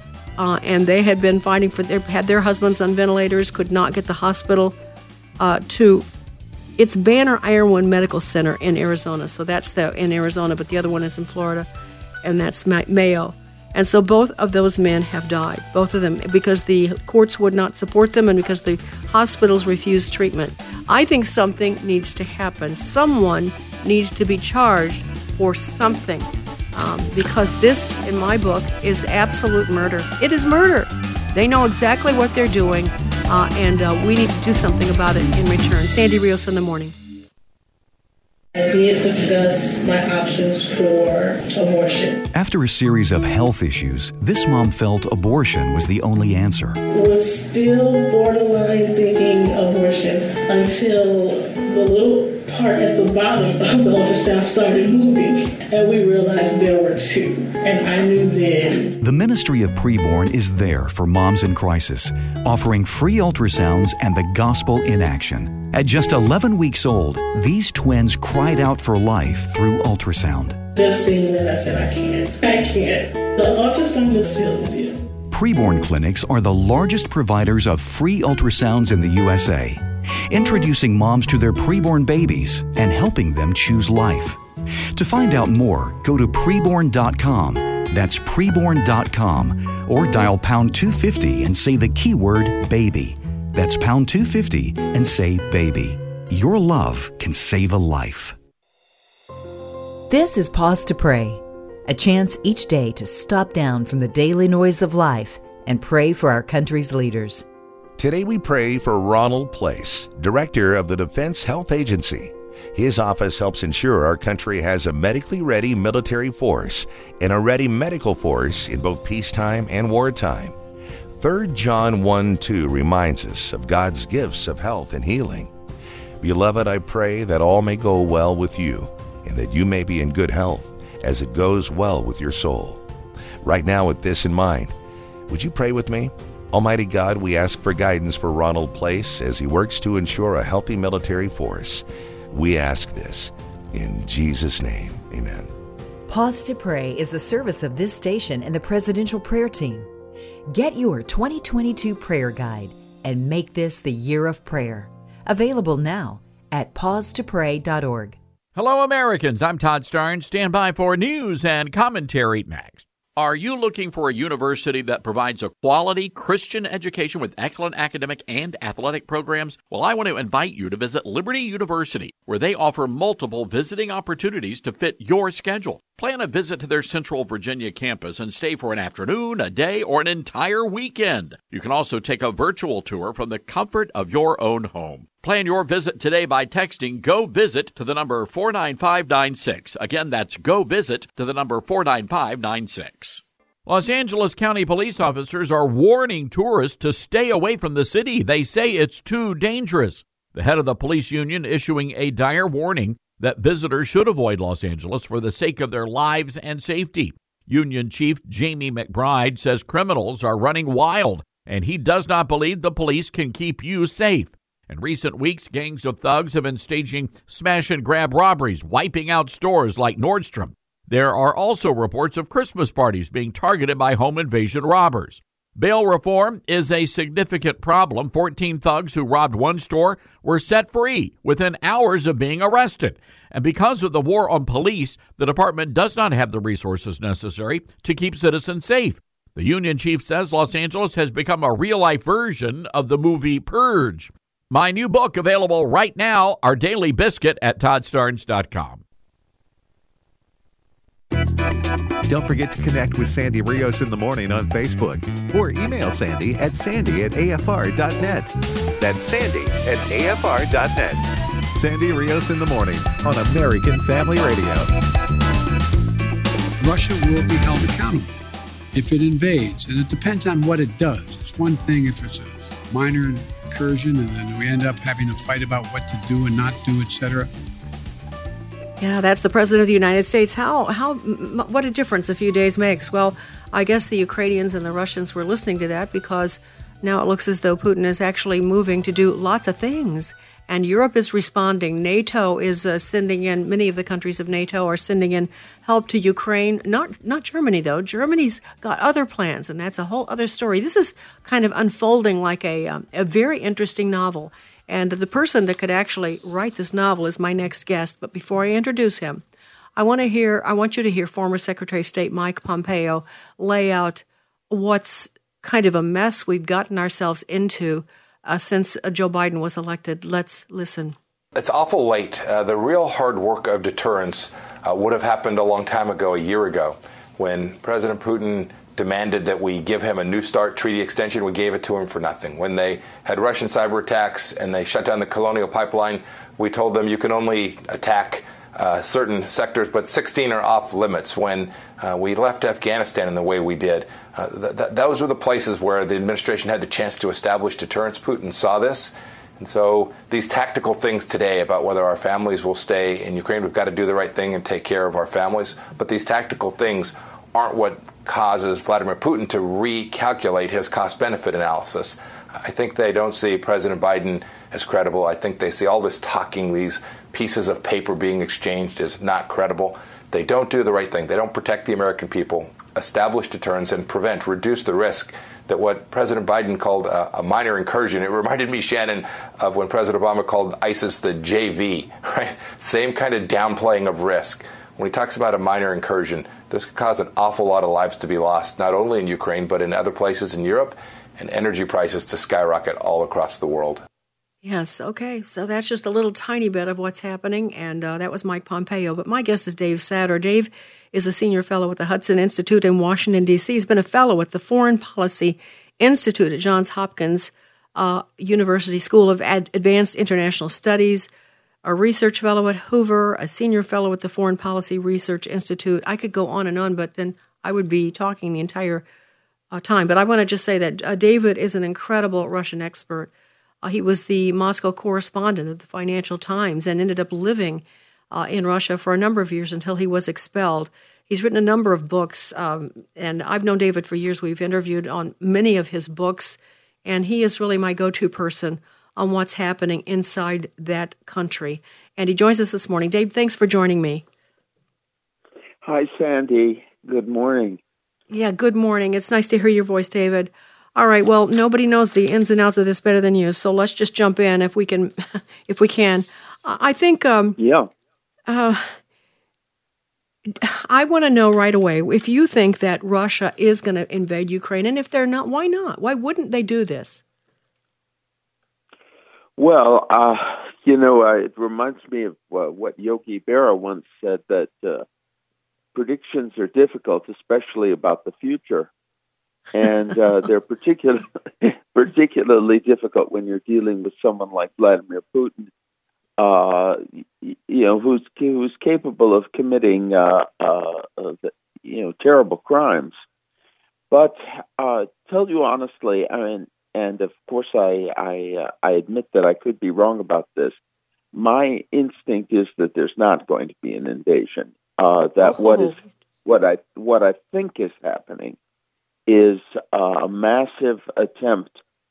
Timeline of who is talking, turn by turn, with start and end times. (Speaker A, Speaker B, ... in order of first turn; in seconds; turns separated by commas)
Speaker A: 0.4-4.8, Speaker A: 5.4-6.1, Speaker A: 6.8-11.7, Speaker A: 12.2-37.0, Speaker B: 38.5-42.2, Speaker C: 42.3-46.8, Speaker B: 46.9-59.0, Speaker C: 59.0-70.6, Speaker B: 70.8-75.0, Speaker C: 75.3-84.4, Speaker C: 84.9-98.4, Speaker D: 100.1-107.5, Speaker E: 108.0-120.6, Speaker E: 121.2-125.5, Speaker E: 126.2-132.8, Speaker E: 133.4-134.7, Speaker E: 135.3-145.5, Speaker D: 146.1-149.9, Speaker D: 150.5-158.2, Speaker F: 158.6-248.8, Speaker G: 252.1-261.0, Speaker G: 261.6-264.7, Speaker H: 266.6-268.2, Speaker H: 268.7-277.3, Speaker A: 278.8-309.2, Speaker A: 309.8-321.0, Speaker I: 321.4-393.8, Speaker A: 394.4-411.1, Speaker A: 411.6-418.9, Speaker A: 419.5-423.1, Speaker A: 423.6-444.1, Speaker J: 445.6-447.6, Speaker A: 448.1-457.4, Speaker J: 457.4-457.7, Speaker A: 458.3-458.8, Speaker A: 460.3-467.0, Speaker J: 469.4-474.9, Speaker J: 475.8-478.7, Speaker J: 479.6-485.5, Speaker J: 486.2-493.0, Speaker J: 493.9-500.6, Speaker J: 501.1-508.4, Speaker A: 505.2-505.9, Speaker J: 509.1-511.6